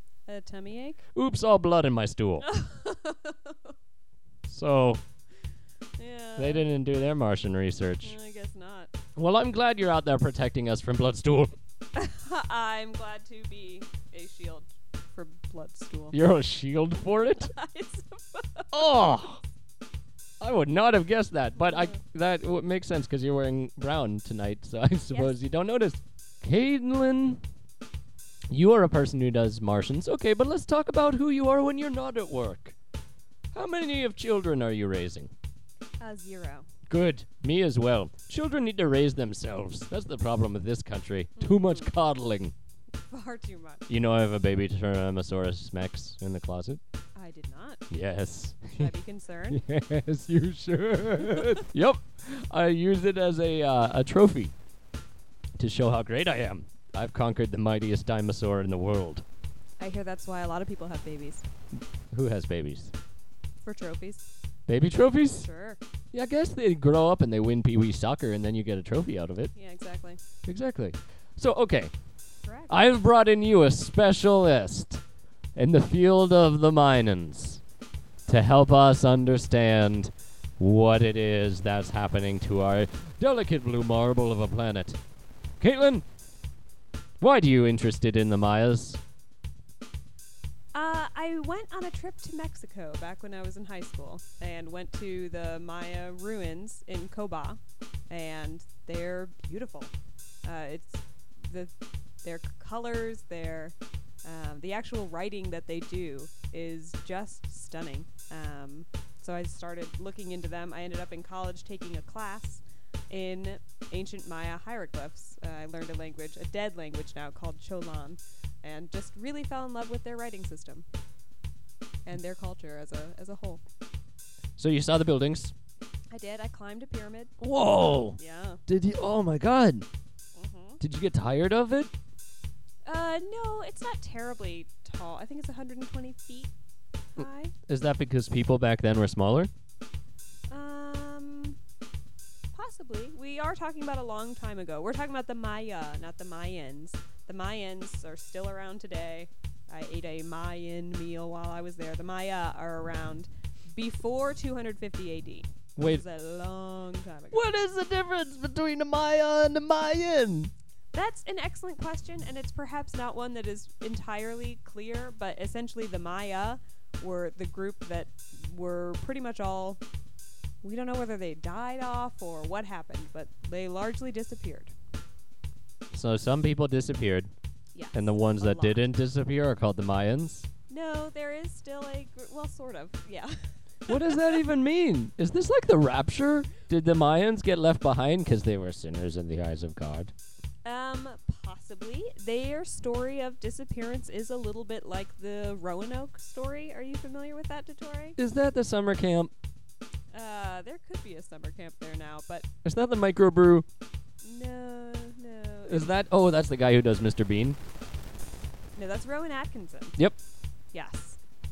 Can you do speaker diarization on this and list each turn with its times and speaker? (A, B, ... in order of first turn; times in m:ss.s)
0:00.3-0:01.0 A
0:01.2-0:02.4 B
0:02.4-0:03.7 A
0:04.5-0:05.0 B
0:06.0-0:06.6 A
0:06.4-0:08.2 B
0:08.0-0:08.9 A
0:09.2-0:11.5 B
0:12.0-0:16.2 A
0:16.1-0:17.5 B
0:17.3-0:18.8 A
0:18.7-0:19.4 B
0:20.4-0:27.4 B
0:21.6-0:22.0 A
0:25.1-0:25.4 A
0:28.5-0:32.8 B
0:33.5-0:35.3 B
0:36.0-0:36.7 A
0:36.9-0:42.5 B
0:41.4-0:41.9 A
0:43.1-0:43.9 A
0:43.9-0:46.8 B
0:47.2-0:47.9 A
0:47.9-0:48.9 B
0:48.7-0:49.6 A
0:49.5-0:54.5 B
0:51.2-0:51.7 A
0:55.6-0:59.2 B
0:59.8-1:01.5 A
1:02.1-1:02.9 B
1:03.6-1:04.3 A
1:04.7-1:05.5 B
1:05.4-1:05.8 A
1:06.1-1:09.5 B
1:09.6-1:10.2 A
1:10.5-1:11.9 B
1:12.4-1:12.8 A
1:12.7-1:15.0 B
1:15.6-1:17.6 B
1:18.3-1:25.0 B
1:25.6-1:26.0 B
1:27.2-1:29.0 B
1:30.7-1:39.9 A
1:40.4-2:00.8 A
2:02.1-2:03.6 A
2:04.6-2:05.5 B
2:06.1-2:08.6 A
2:07.4-2:09.9 B
2:10.4-2:10.8 A
2:10.8-2:11.9 B
2:12.9-2:16.5 A
2:17.2-2:17.6 A
2:17.2-2:19.5 B
2:20.5-2:21.6 A
2:22.5-2:37.4 A
2:35.8-2:36.0 B
2:37.3-2:40.5 B
2:40.9-2:49.8 A
2:50.6-2:54.7 A
2:55.9-2:57.3 B
2:57.7-2:58.8 A
2:57.9-3:00.5 B
3:00.7-3:04.4 A
3:03.9-3:10.1 B
3:10.6-3:18.2 A
3:18.2-3:19.3 B
3:20.1-3:22.5 A
3:22.6-3:23.7 B
3:24.2-3:25.9 A
3:25.7-3:27.6 B
3:28.8-3:30.0 A
3:30.7-3:31.2 A